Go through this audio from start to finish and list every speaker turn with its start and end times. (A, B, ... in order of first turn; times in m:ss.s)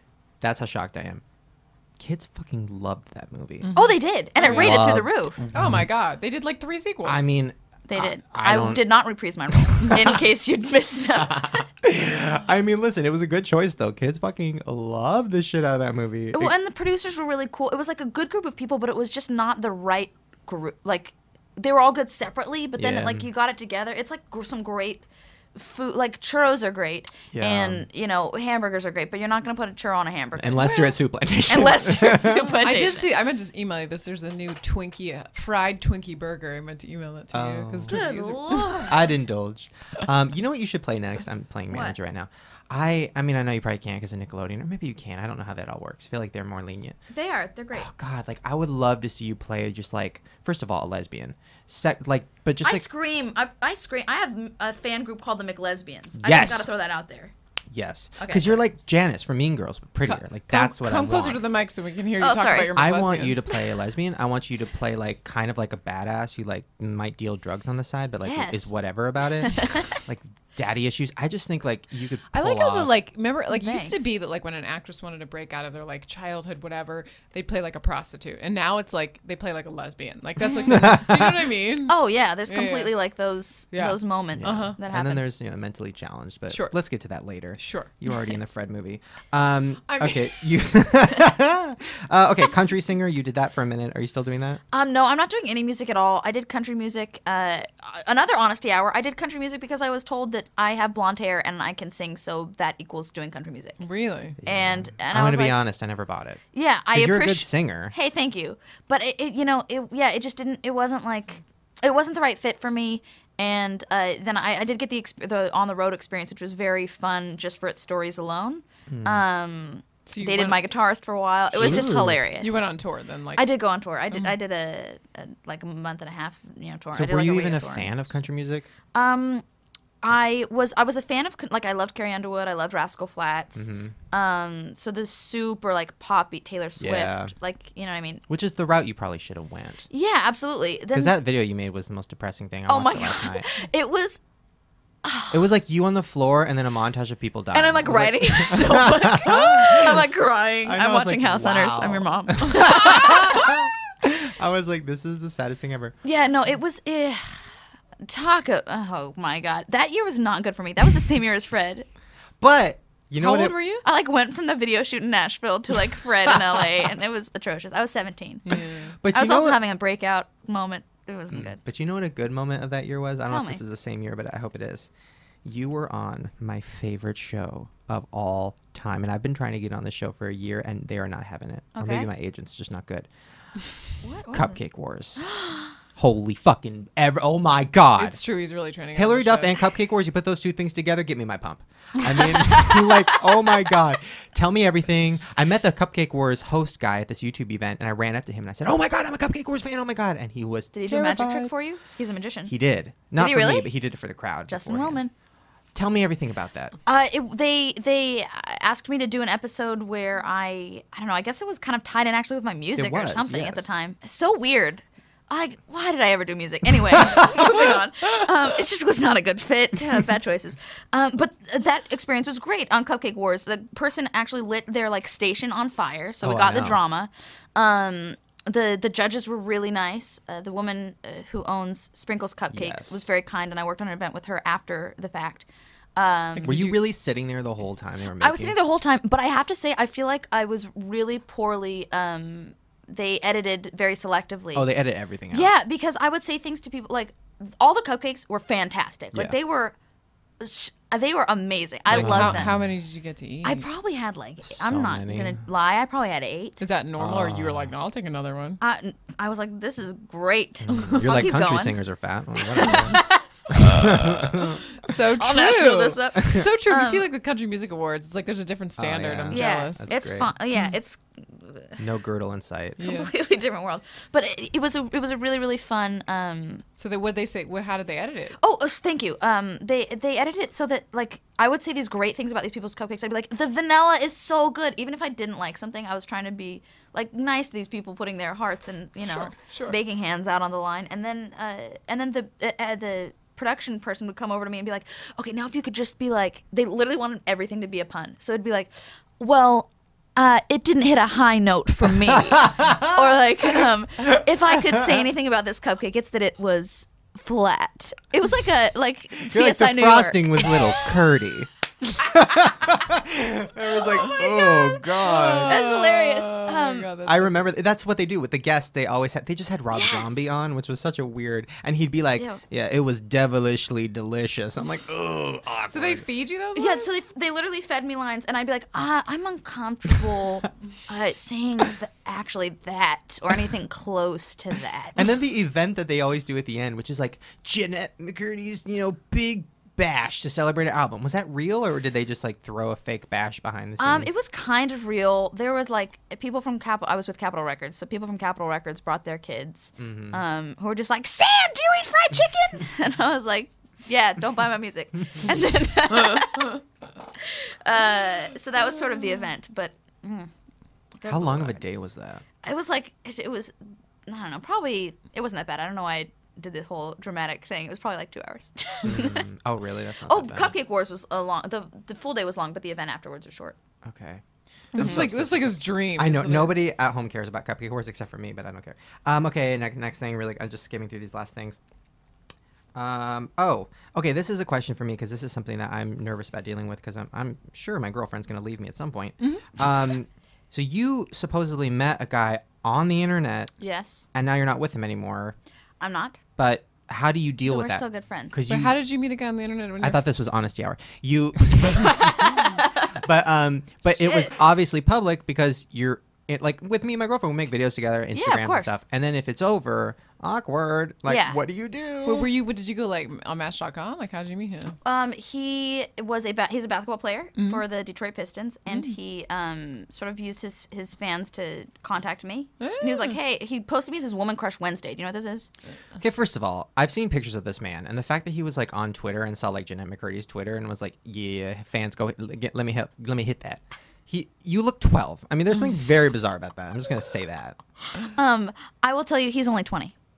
0:00.4-0:01.2 A
0:02.0-0:03.7 A
0:03.6-0:04.8 B
0:03.7-0:05.4 C
0:04.4-0:05.9 A
0:05.5-0:07.3 B
0:07.0-0:08.8 A
0:07.9-0:11.6 C
0:09.7-0:10.2 A
0:11.2-0:16.5 A
0:16.3-0:25.0 C
0:22.7-0:23.3 A
0:25.5-0:33.1 C
0:27.3-0:27.8 A
0:30.4-0:32.5 A
0:32.6-0:38.9 B
0:37.3-0:38.0 A
0:37.9-0:39.0 C
0:38.8-0:47.0 A
0:41.7-0:41.9 C
0:47.1-0:47.9 C
0:47.7-0:52.9 A
0:52.6-0:57.3 C
0:56.2-0:56.7 A
0:57.7-1:01.4 A
0:58.2-0:58.6 C
1:00.0-1:03.6 B
1:02.2-1:02.8 C
1:02.7-1:12.9 A
1:08.2-1:08.7 C
1:09.4-1:09.9 C
1:12.3-1:23.0 B
1:13.5-1:14.0 C
1:20.4-1:20.8 C
1:20.7-1:21.3 A
1:21.9-1:25.2 C
1:23.7-1:24.8 B
1:24.3-1:34.6 A
1:26.5-1:26.8 B
1:27.6-1:27.9 B
1:29.9-1:30.4 B
1:34.7-1:43.8 C
1:43.8-1:44.4 B
1:44.4-1:45.6 C
1:44.4-1:46.4 A
1:46.5-2:02.6 C
1:46.9-1:47.9 A
1:58.9-1:59.2 A
2:00.1-2:00.6 B
2:01.5-2:02.2 A
2:01.6-2:03.4 B
2:03.4-2:07.9 C
2:06.9-2:08.7 A
2:08.9-2:09.4 C
2:10.0-2:18.2 C
2:13.6-2:13.9 A
2:16.8-2:17.3 A
2:18.3-2:19.8 A
2:19.9-2:21.2 C
2:20.9-2:23.5 A
2:22.7-2:24.2 C
2:25.0-2:25.5 C
2:25.3-2:30.1 A
2:27.5-2:33.6 C
2:30.6-2:35.9 A
2:36.0-2:37.4 C
2:38.0-2:41.9 C
2:42.4-2:43.6 A
2:43.2-2:43.8 B
2:43.8-2:48.5 C
2:48.4-2:49.0 B
2:49.0-2:49.6 A
2:49.1-2:51.6 C
2:51.3-2:54.9 A
2:53.3-2:53.6 C
2:55.4-3:03.1 A
3:01.8-3:02.1 C
3:04.0-3:04.6 C
3:04.3-3:05.3 A
3:05.2-3:05.7 C
3:06.0-3:08.2 A
3:08.0-3:09.6 B
3:08.9-3:21.5 A
3:12.2-3:13.1 C
3:20.7-3:22.5 C
3:22.5-3:25.0 A
3:23.2-3:23.7 C
3:24.5-3:25.1 C
3:25.7-3:26.8 A
3:26.8-3:56.6 C
3:32.8-3:33.7 A
3:46.2-3:46.8 A
3:52.5-3:53.0 A
3:56.3-3:56.8 B
3:56.4-3:58.6 A
3:58.2-4:04.7 C
4:04.5-4:05.5 A
4:05.3-4:09.7 C
4:10.4-4:12.5 C
4:11.9-4:13.6 B
4:11.9-4:12.7 A
4:13.4-4:16.6 C
4:14.5-4:15.4 A
4:16.6-4:18.6 B
4:17.0-4:17.7 A
4:18.6-4:21.8 C
4:20.6-4:23.0 A
4:22.6-4:23.8 C
4:23.5-4:24.6 A
4:23.8-4:29.9 B
4:25.2-4:27.1 C
4:28.8-4:30.3 A
4:29.3-4:31.8 C
4:31.8-4:32.8 A
4:32.8-4:33.1 B
4:32.8-4:36.6 C
4:36.8-4:38.4 B
4:38.4-5:10.8 C
4:49.0-4:49.8 B
5:02.4-5:02.9 A
5:09.2-5:15.5 A
5:13.8-5:16.9 C
5:15.0-5:17.5 B
5:17.0-5:26.0 A
5:19.7-5:20.3 C
5:22.2-5:22.4 C
5:25.7-5:26.9 B
5:26.5-5:35.0 C
5:35.0-5:44.1 A
5:43.8-5:56.6 C
5:49.8-5:50.2 A
5:57.2-6:00.3 C
6:01.0-6:01.6 C
6:01.0-6:02.2 A
6:02.4-6:03.5 C
6:04.1-6:09.2 C
6:08.8-6:10.5 A
6:10.1-6:13.6 C
6:13.8-6:14.2 A
6:14.7-6:16.6 B
6:14.7-6:21.6 A
6:14.7-6:15.0 C
6:22.7-6:33.5 A
6:29.2-6:29.6 B
6:33.6-6:34.1 C
6:34.1-6:35.4 A
6:35.8-6:36.2 C
6:36.4-6:38.8 A
6:37.4-6:38.4 C
6:38.5-6:40.0 B
6:39.8-6:52.3 A
6:41.8-6:42.8 C
6:44.0-6:44.3 C
6:48.1-6:48.8 C
6:51.1-6:51.4 C
6:52.0-6:54.8 B
6:54.8-7:05.5 C
6:57.4-6:57.6 B
7:02.6-7:03.2 B
7:06.0-7:17.6 A
7:18.1-7:19.9 C